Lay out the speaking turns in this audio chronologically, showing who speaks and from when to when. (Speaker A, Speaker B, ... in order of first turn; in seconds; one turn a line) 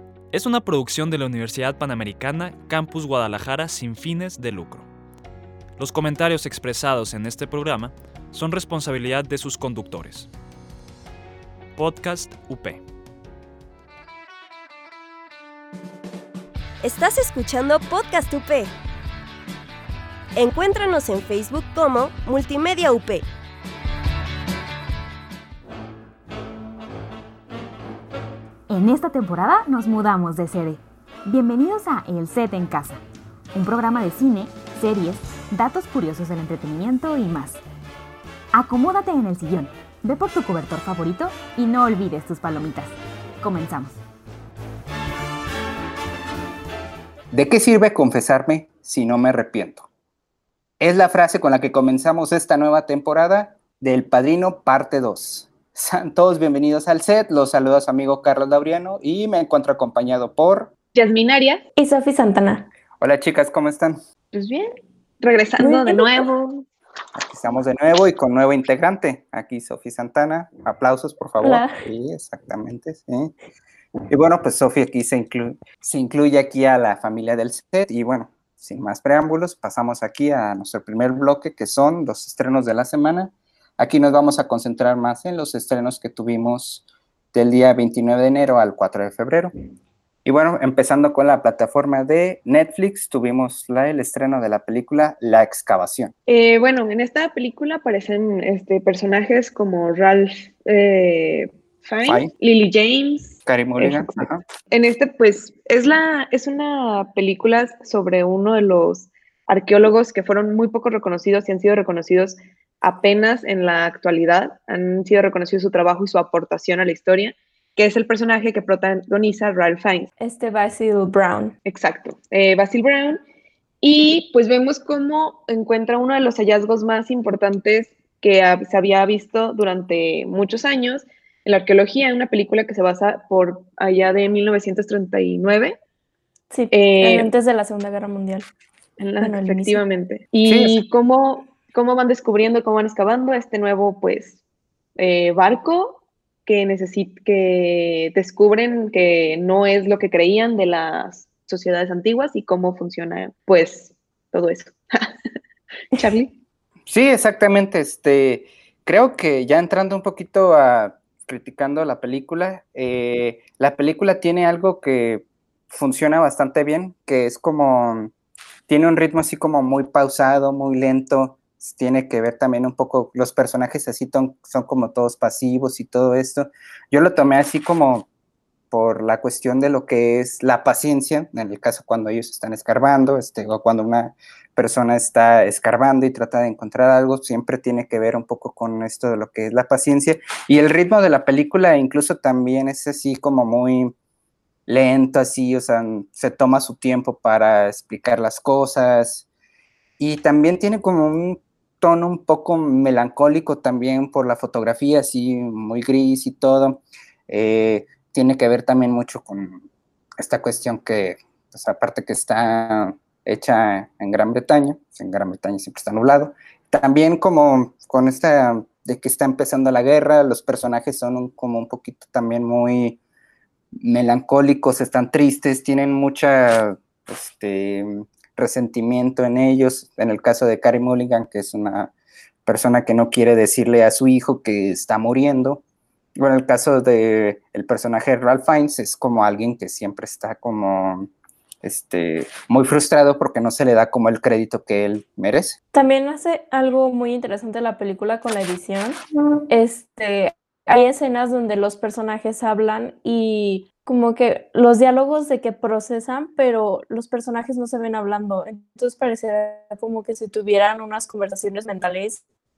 Speaker A: 0.3-4.9
Speaker A: 5.8-10.3
Speaker A: 11.8-12.8
Speaker B: 16.8-18.7
Speaker B: 20.4-23.2
Speaker C: 28.7-33.0
Speaker C: 33.5-37.6
Speaker C: 38.5-44.0
Speaker D: 47.3-49.9
Speaker D: 50.8-60.7
Speaker E: 60.9-61.6
Speaker F: 61.8-62.7
Speaker D: 63.0-64.0
Speaker E: 64.3-66.6
Speaker F: 65.6-66.2
Speaker D: 67.2-73.3
Speaker F: 71.4-71.7
Speaker D: 74.1-89.5
Speaker D: 90.2-96.1
Speaker E: 96.3-120.1
Speaker D: 102.0-102.3
Speaker D: 103.5-104.4
Speaker F: 120.2-121.5
Speaker E: 121.7-123.2
Speaker E: 123.8-135.8
Speaker F: 136.5-138.5
Speaker E: 136.7-137.3
Speaker E: 139.0-144.4
Speaker F: 139.2-139.8
Speaker D: 140.4-140.8
Speaker E: 145.0-155.1
Speaker E: 155.9-156.3
Speaker D: 156.9-168.1
Speaker D: 168.7-178.1
Speaker D: 178.7-193.9
Speaker D: 194.7-199.2
Speaker D: 200.0-209.7
Speaker D: 210.2-223.0
Speaker D: 223.8-231.9
Speaker D: 232.4-235.6
Speaker D: 236.2-241.1
Speaker D: 241.6-245.6
Speaker F: 245.7-262.2